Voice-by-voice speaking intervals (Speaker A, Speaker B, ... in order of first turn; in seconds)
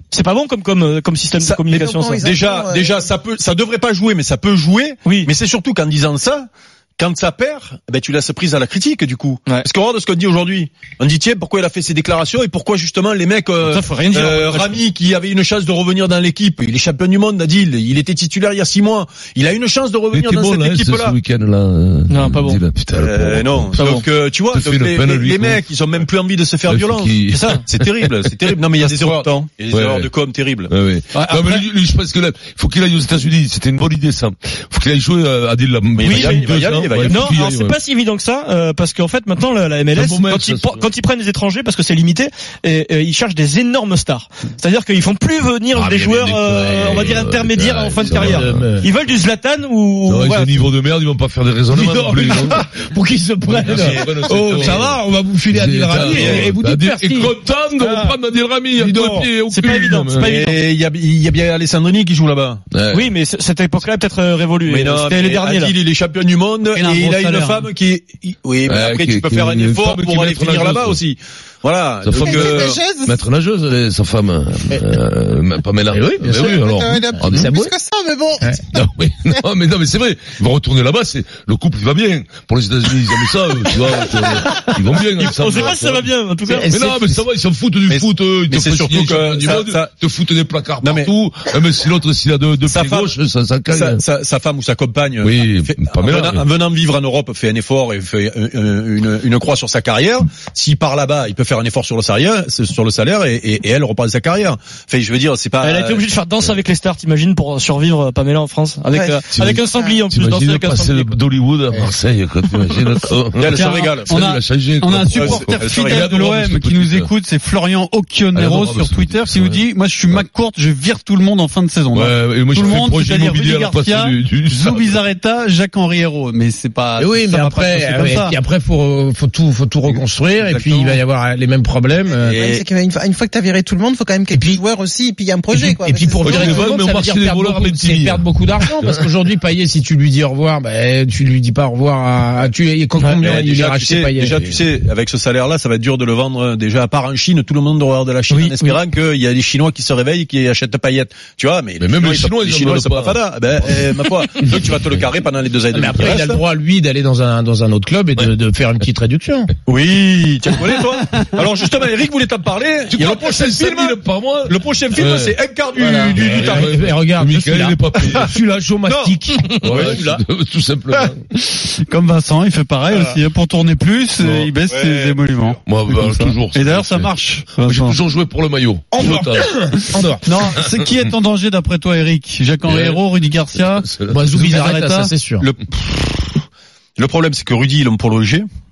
Speaker A: 0.1-2.4, 13.6-14.8, 22.1-22.6, 23.8-24.0, 27.3-27.6, 36.0-36.5, 37.0-50.5, 57.8-58.1, 59.0-60.6, 62.9-65.7, 85.2-86.7, 105.6-111.1, 143.0-143.4, 148.3-148.6
Speaker B: 1.4-6.5, 7.0-21.2, 22.9-30.7, 36.0-37.4, 53.6-54.8, 56.1-56.5, 60.2-62.6, 64.7-72.8, 87.9-89.9, 90.8-91.1, 92.7-93.1, 93.7-106.0, 108.9-109.2, 113.3-114.1, 115.1-116.2, 132.1-132.6, 143.2-156.4, 159.7-166.7, 168.8-170.1, 174.7-175.2, 185.4-186.4, 187.0-188.4
Speaker C: 1.9-2.9, 72.8-73.1, 76.7-77.1, 77.6-78.3, 132.6-136.7
Speaker D: 20.1-25.6, 26.6-28.5, 29.7-30.1, 30.6-37.8, 39.9-40.8, 45.7-48.8, 50.0-52.6, 53.5-60.4, 62.7-63.1, 68.7-71.0, 72.0-77.5, 78.7-86.1, 86.7-94.0, 95.2-96.4, 109.3-117.1, 118.3-120.2, 121.9-125.0, 136.2-139.0, 151.8-153.2, 162.9-165.3, 166.1-168.3, 169.5-171.2, 174.2-174.5, 175.7-180.0, 182.6-183.0, 183.5-184.3
Speaker E: 31.1-31.6, 66.7-67.7, 113.5-128.3, 130.4-131.0, 171.8-178.0, 180.2-185.1
Speaker F: 48.0-48.9, 51.7-57.3, 75.9-77.8, 86.5-87.2, 127.0-132.7, 134.3-134.6, 135.5-144.7, 155.7-159.5, 165.9-169.5, 178.9-180.3, 184.1-185.4